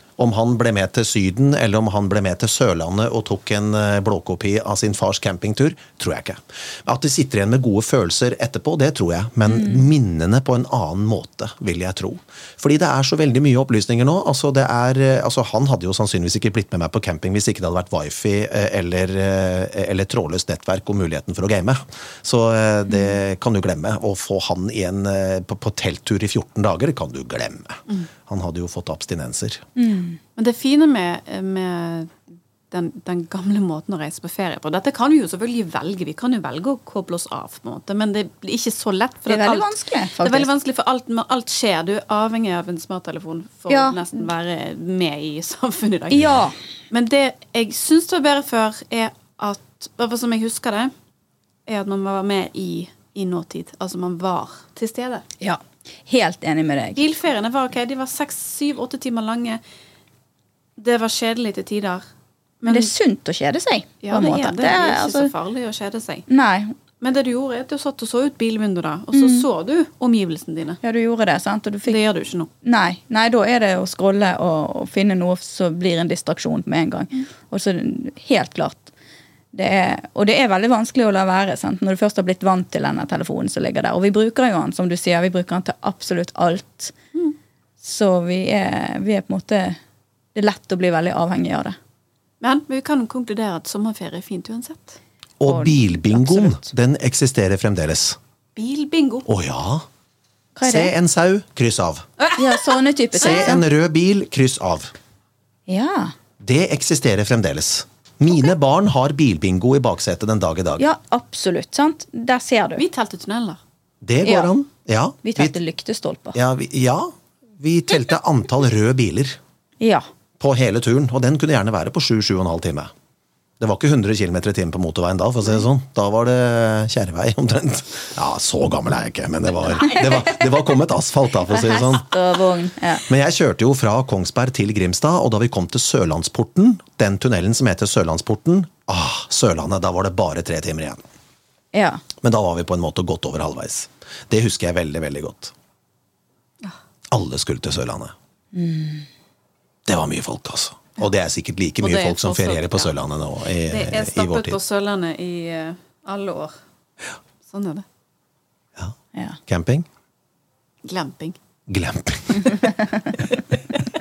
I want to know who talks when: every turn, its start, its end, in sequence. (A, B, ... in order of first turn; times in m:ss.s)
0:00.2-0:29.6 A
0:09.5-0:09.8 B
0:22.9-0:23.1 B
0:29.8-0:30.2 B
0:30.4-0:32.2 C
0:32.7-0:50.9 C
0:39.3-0:40.5 B
0:43.7-0:44.0 B
0:46.1-0:46.6 B
0:51.7-0:55.2 C
0:55.4-0:57.0 B
0:57.0-0:59.6 C
1:00.8-1:02.0 C
1:02.6-1:02.9 C
1:02.7-1:05.3 B
1:04.0-1:06.2 C
1:06.3-1:06.7 B
1:07.0-1:10.8 C
1:09.1-1:09.4 B
1:10.8-1:12.0 B
1:11.8-1:12.5 C
1:12.6-1:18.9 B
1:19.5-1:26.9 B
1:27.8-1:29.8 B
1:30.3-1:31.8 B
1:32.4-1:35.0 C
1:35.4-1:38.2 A
1:35.5-1:36.6 B
1:38.6-1:39.3 C
1:39.3-1:39.8 A
1:40.6-1:40.9 B
1:40.6-1:42.0 A
1:42.2-1:43.5 C
1:42.4-1:43.6 B
1:43.2-1:44.9 A
1:45.7-1:46.1 B
1:46.4-1:50.8 A
1:50.8-1:52.8 B
1:52.8-1:53.6 C
1:54.0-1:55.6 A
1:54.2-1:54.5 B
1:55.2-1:56.4 B
1:56.3-1:59.4 A
1:59.8-2:00.0 B
2:00.4-2:02.9 A
2:03.6-2:12.1 A
2:09.7-2:10.4 B
2:11.5-2:13.0 B
2:13.0-2:21.0 A
2:21.7-2:22.0 B
2:22.2-2:25.5 A
2:27.1-2:28.1 A
2:28.5-2:29.0 B
2:29.8-2:34.6 A
2:31.8-2:32.9 C
2:33.7-2:36.5 C
2:37.4-2:37.8 C
2:39.1-2:39.4 B
2:39.5-2:39.8 A
2:40.8-2:41.4 C
2:41.7-2:42.7 A
2:42.4-2:43.1 B